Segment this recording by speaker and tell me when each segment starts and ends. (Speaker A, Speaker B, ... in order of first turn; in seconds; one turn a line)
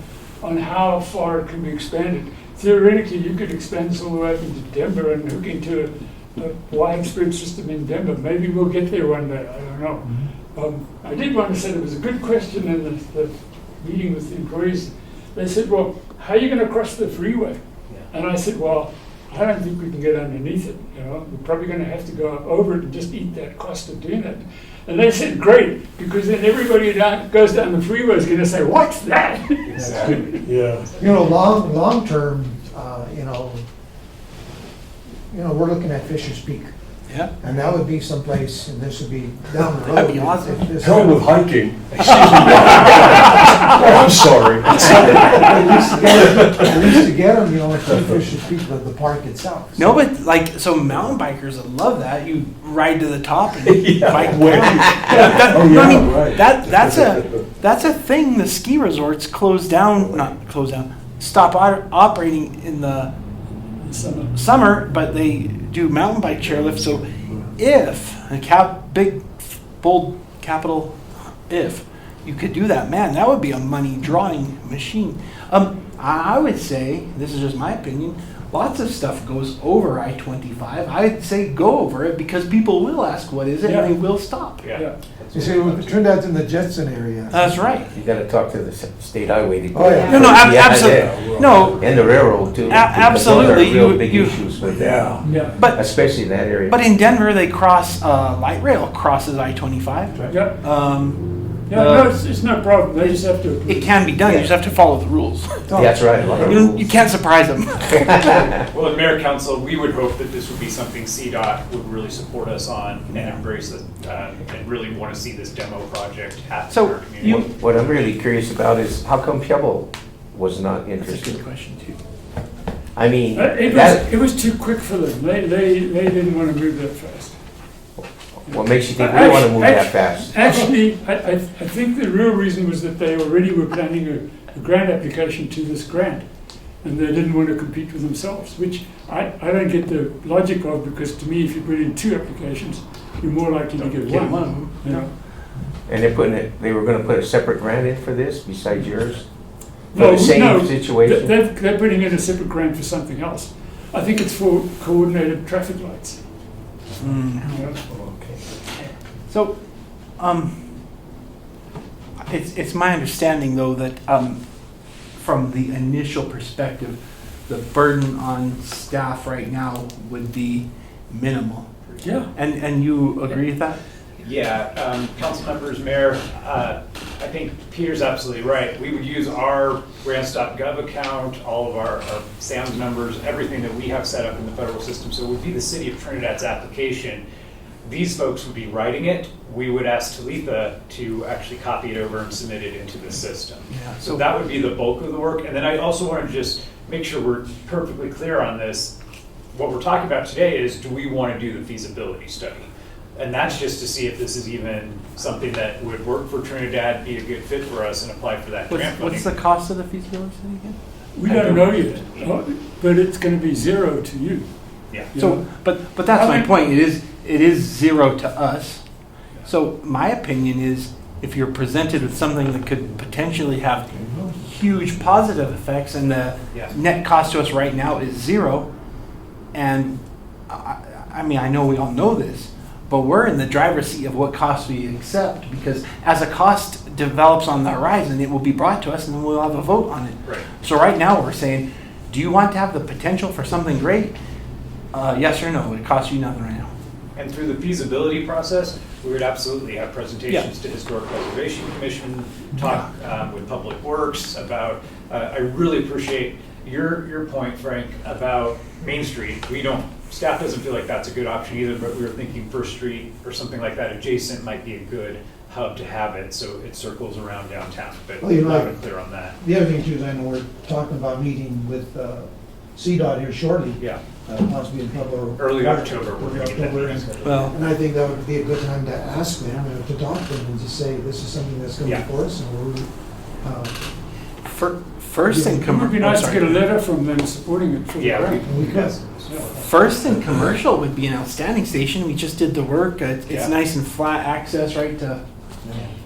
Speaker A: 0.4-30.5
Speaker B: 29.7-30.2
Speaker C: 29.7-33.6
Speaker D: 30.0-30.9
Speaker C: 35.3-36.7
Speaker C: 37.4-41.1
Speaker E: 39.8-40.7
Speaker D: 40.8-46.9
Speaker E: 42.3-43.1
Speaker C: 42.8-44.1
Speaker C: 44.7-49.9
Speaker D: 47.8-48.3
Speaker E: 49.8-63.1
Speaker D: 53.5-57.5
Speaker A: 63.8-64.3
Speaker E: 64.3-70.9
Speaker D: 66.3-67.4
Speaker E: 71.5-84.7
Speaker A: 83.6-83.9
Speaker B: 84.6-86.0
Speaker C: 85.3-87.5
Speaker E: 87.3-87.9
Speaker F: 87.8-96.8
Speaker C: 89.7-90.2
Speaker E: 90.1-91.9
Speaker D: 90.2-91.8
Speaker E: 92.6-94.5
Speaker D: 93.0-93.5
Speaker D: 94.6-95.6
Speaker A: 95.3-95.6
Speaker E: 95.4-95.9
Speaker E: 96.7-102.2
Speaker A: 100.3-100.6
Speaker A: 101.7-104.0
Speaker E: 103.0-105.7
Speaker F: 104.2-104.5
Speaker C: 105.7-106.6
Speaker F: 105.7-107.0
Speaker E: 106.4-108.5
Speaker F: 108.0-108.5
Speaker B: 108.7-117.4
Speaker E: 116.7-117.5
Speaker F: 117.2-121.4
Speaker E: 121.0-122.0
Speaker F: 123.0-124.1
Speaker A: 123.3-127.4
Speaker F: 128.0-130.4
Speaker A: 128.5-136.3
Speaker A: 136.8-145.1
Speaker E: 143.8-145.0
Speaker F: 145.9-149.3
Speaker A: 149.9-156.2
Speaker F: 149.9-151.3
Speaker E: 157.0-157.5
Speaker A: 157.4-157.8
Speaker E: 159.3-159.6
Speaker E: 160.2-160.5
Speaker E: 162.2-164.4
Speaker E: 165.2-171.7
Speaker A: 172.0-172.3
Speaker E: 172.3-173.8
Speaker B: 174.2-187.2
Speaker B: 187.8-198.9
Speaker E: 193.7-194.2
Speaker B: 199.5-209.3
Speaker E: 208.7-211.8
Speaker A: 211.1-214.5
Speaker B: 211.3-212.3
Speaker A: 215.0-215.5
Speaker E: 215.2-218.8
Speaker A: 216.1-216.6
Speaker E: 219.5-223.9
Speaker C: 223.9-224.4
Speaker E: 224.4-228.7
Speaker E: 229.5-244.2
Speaker E: 244.9-246.7
Speaker B: 247.2-269.4
Speaker C: 268.2-268.8
Speaker C: 269.4-283.8
Speaker B: 275.4-277.6
Speaker E: 277.2-277.5
Speaker E: 284.4-286.7
Speaker A: 285.3-288.6
Speaker B: 288.0-289.6
Speaker C: 288.4-289.0
Speaker E: 289.6-295.2
Speaker B: 293.3-293.6